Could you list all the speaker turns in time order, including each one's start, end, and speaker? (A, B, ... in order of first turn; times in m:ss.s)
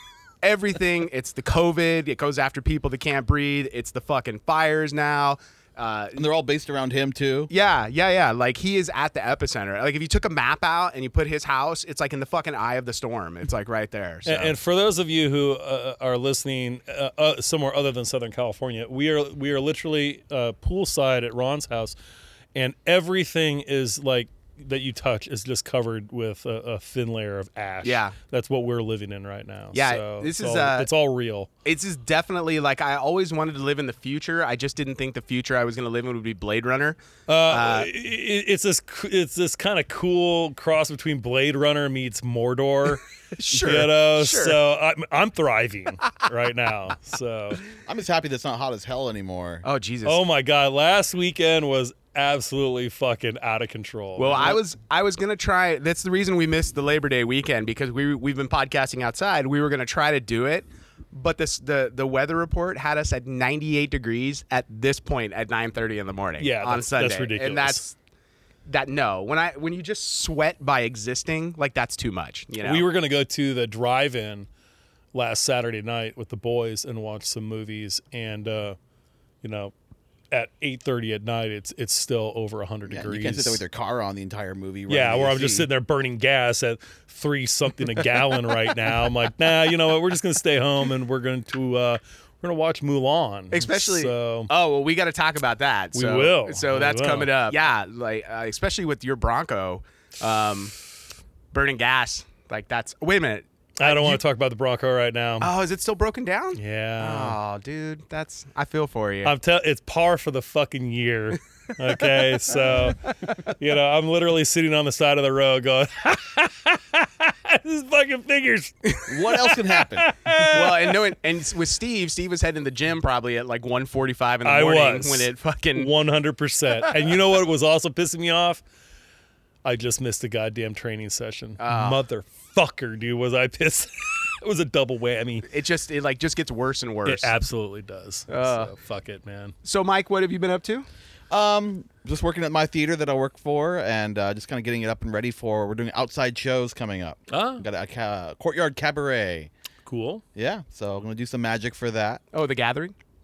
0:00.4-0:06.3 A
0:06.2-0:07.5 B
0:07.5-0:14.5 A
0:14.2-0:22.0 C
0:22.5-0:31.5 C
0:27.8-0:28.1 A
0:29.7-0:30.9 A
0:31.6-0:37.9 A
0:37.3-0:47.6 C
0:43.3-0:44.6 A
0:47.8-0:49.6 B
0:49.6-0:50.2 A
0:50.0-0:54.6 C
0:54.2-1:07.9 A
1:06.4-1:07.8 C
1:08.6-1:12.8 A
1:12.6-1:14.5 C
1:15.1-1:18.8 C
1:19.4-1:19.7 C
1:20.3-1:23.6 C
1:22.9-1:25.7 B
1:24.9-1:34.5 C
1:33.5-1:40.7 A
1:35.9-1:37.3 C
1:41.5-1:44.2 A
1:43.8-1:45.5 C
1:45.4-1:49.3 A
1:46.6-1:47.4 C
1:49.2-2:01.0 C
1:59.1-2:00.1 B
2:00.4-2:05.9 A
2:04.4-2:08.6 C
2:09.6-2:15.5 C
2:11.6-2:12.0 A
2:15.5-2:17.3 A
2:17.0-2:19.5 C
2:18.3-2:18.7 A
2:19.6-2:20.8 A
2:21.3-2:29.5 B
2:27.3-2:27.6 C
2:29.8-2:30.2 C
2:30.4-2:32.2 B
2:32.3-2:32.9 A